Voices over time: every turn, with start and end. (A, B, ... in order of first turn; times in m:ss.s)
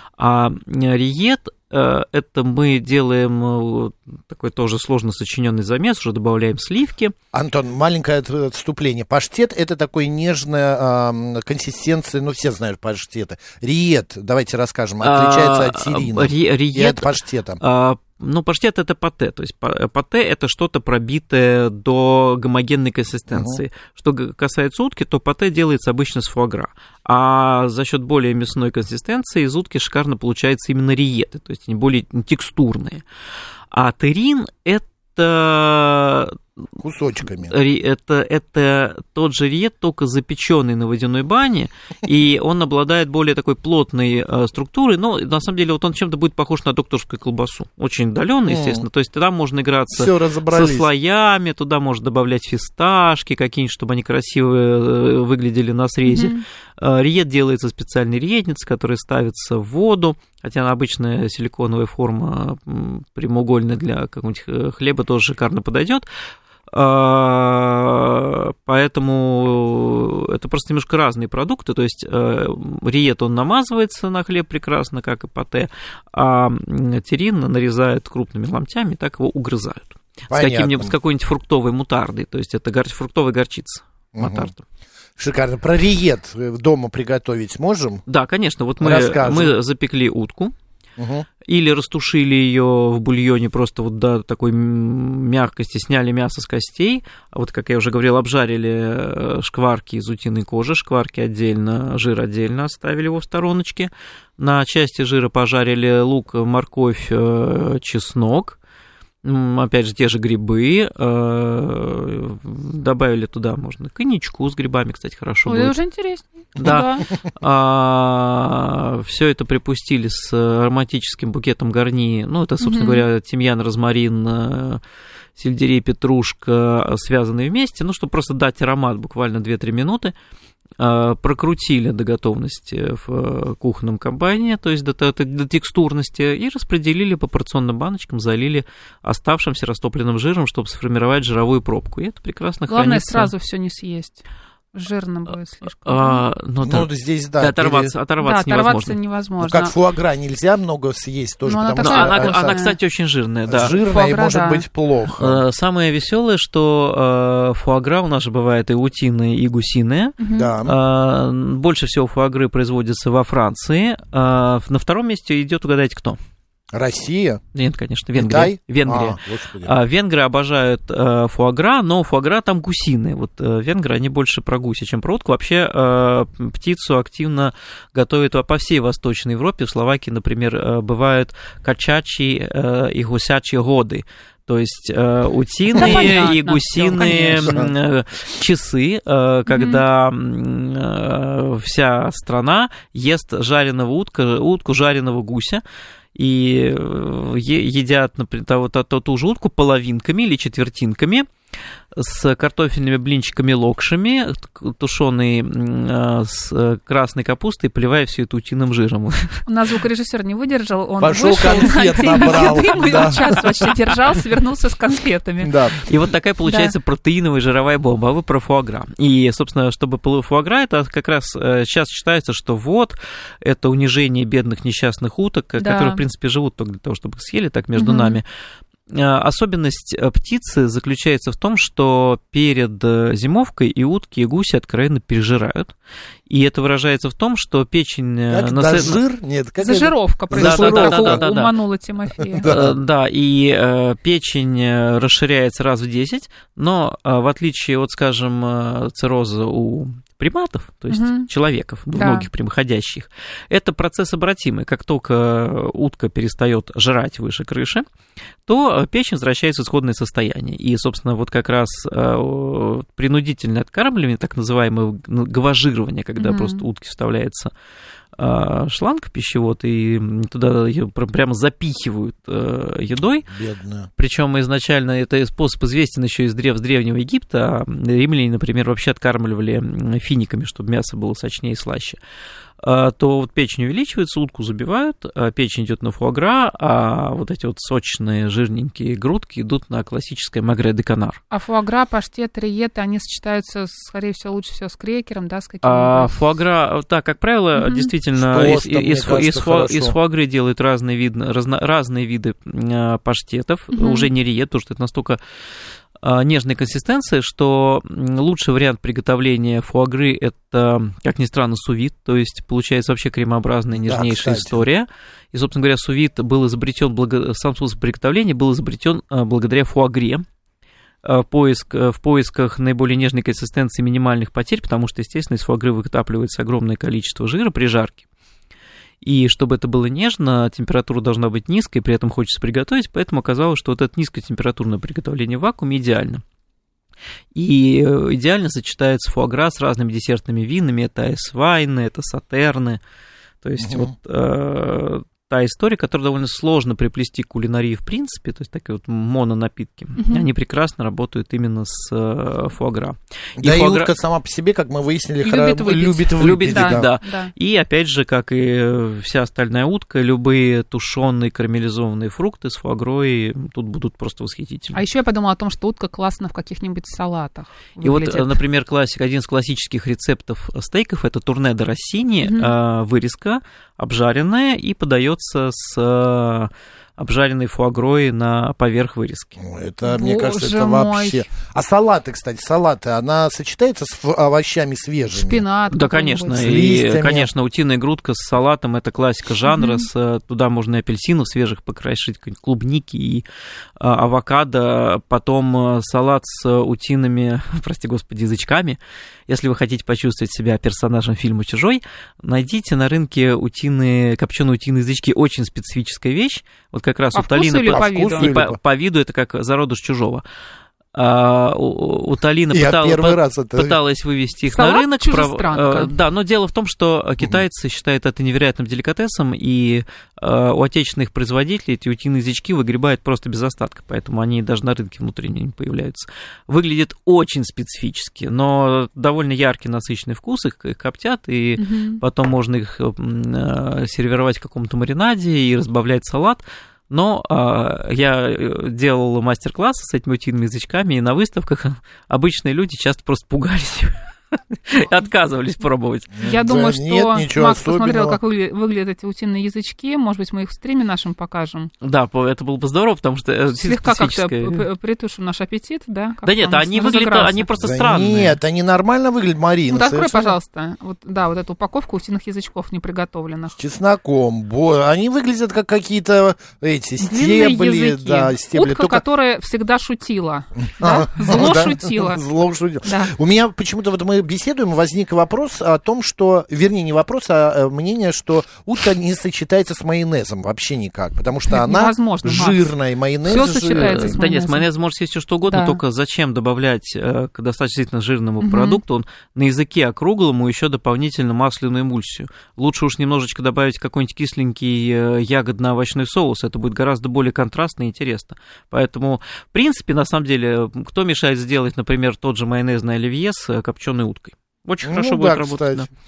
0:00.2-0:07.1 A
0:07.3-0:17.6 B
0:15.0-0:33.0 A
0:23.3-0:23.6 B
0:33.7-0:36.4 A
0:36.8-0:37.5 B
0:37.4-1:06.0 A
0:48.4-0:48.8 B
0:49.9-0:50.9 B
0:56.0-0:56.4 C
1:06.7-1:24.6 A
1:20.3-1:20.9 B
1:24.1-1:24.5 B
1:25.2-1:28.0 B
1:28.1-1:30.5 A
1:28.8-1:29.5 B
1:31.0-1:31.3 B
1:31.4-1:48.6 A
1:49.2-1:55.8 A
1:55.5-1:57.0 C
1:56.6-2:04.8 A
2:02.6-2:03.0 C
2:05.4-2:10.1 A
2:10.8-2:23.3 A
2:22.7-2:24.2 C
2:24.7-2:26.2 C
2:25.8-2:29.0 A
2:26.6-2:27.9 B
2:28.2-2:29.7 C
2:29.4-2:32.6 B
2:31.4-2:32.8 C
2:31.8-2:33.7 A
2:33.5-2:35.4 B
2:33.8-2:34.6 C
2:35.2-2:46.2 A
2:40.2-2:40.5 C
2:40.3-2:40.7 B
2:46.7-2:47.4 B
2:47.5-3:15.6 A
2:48.1-2:49.7 B
3:05.7-3:06.1 B
3:05.8-3:07.6 C
3:07.4-3:07.7 B
3:09.5-3:09.8 C
3:16.1-3:21.3 A
3:21.9-3:29.4 A
3:29.4-3:35.5 C
3:31.0-3:33.5 B
3:32.0-3:33.4 A
3:35.4-3:35.7 B
3:35.8-3:48.3 A
3:36.5-3:36.7 C
3:45.6-3:46.0 C
3:47.8-3:48.2 C
3:48.9-3:55.7 A
3:56.3-3:59.0 A
3:58.3-4:01.2 B
3:59.6-4:02.5 C
4:00.3-4:01.5 A
4:02.2-4:02.7 B
4:02.4-4:17.8 A
4:10.9-4:11.3 C
4:12.0-4:12.3 C
4:18.4-4:27.5 A
4:26.2-4:26.6 C
4:28.2-4:33.3 A
4:33.3-4:33.9 B
4:34.0-4:42.0 A
4:42.6-4:51.2 A
4:51.3-4:56.2 C
4:55.6-5:05.2 A
4:57.6-4:57.9 C
4:58.2-5:00.0 B
5:03.7-5:04.1 C
5:06.0-5:20.2 A
5:13.7-5:14.6 B
5:21.0-5:28.0 A
5:29.0-5:36.2 A
5:37.3-5:42.8 A
5:43.4-5:53.9 A
5:43.6-5:43.9 B
5:50.0-5:50.2 C
5:53.4-5:56.9 B
5:55.2-5:57.3 C
5:56.2-6:04.8 A
6:04.7-6:08.4 C
6:07.8-6:19.4 A
6:12.2-6:12.5 C
6:19.4-6:25.4 B
6:19.8-6:21.2 C
6:25.1-6:26.5 C
6:25.7-6:33.2 A
6:26.4-6:27.3 B
6:29.5-6:29.9 C
6:33.8-6:50.2 A
6:47.1-6:48.3 C
6:47.7-6:48.6 B
6:50.9-7:26.2 A
6:52.5-6:53.8 B
6:54.5-6:55.9 C
7:11.6-7:12.0 C
7:26.2-7:28.2 B
7:26.2-7:31.7 C
7:31.8-7:34.6 A
7:33.6-7:37.5 C
7:36.2-7:38.4 A
7:37.6-7:40.3 B
7:39.7-7:43.6 C
7:43.6-7:49.0 B
7:47.0-7:52.2 C
7:50.8-8:04.1 B
7:52.8-7:53.1 C
8:01.5-8:02.7 C
8:03.2-8:04.7 C
8:03.3-8:25.9 A
8:05.4-8:05.8 C
8:08.4-8:08.8 C
8:24.8-8:25.9 B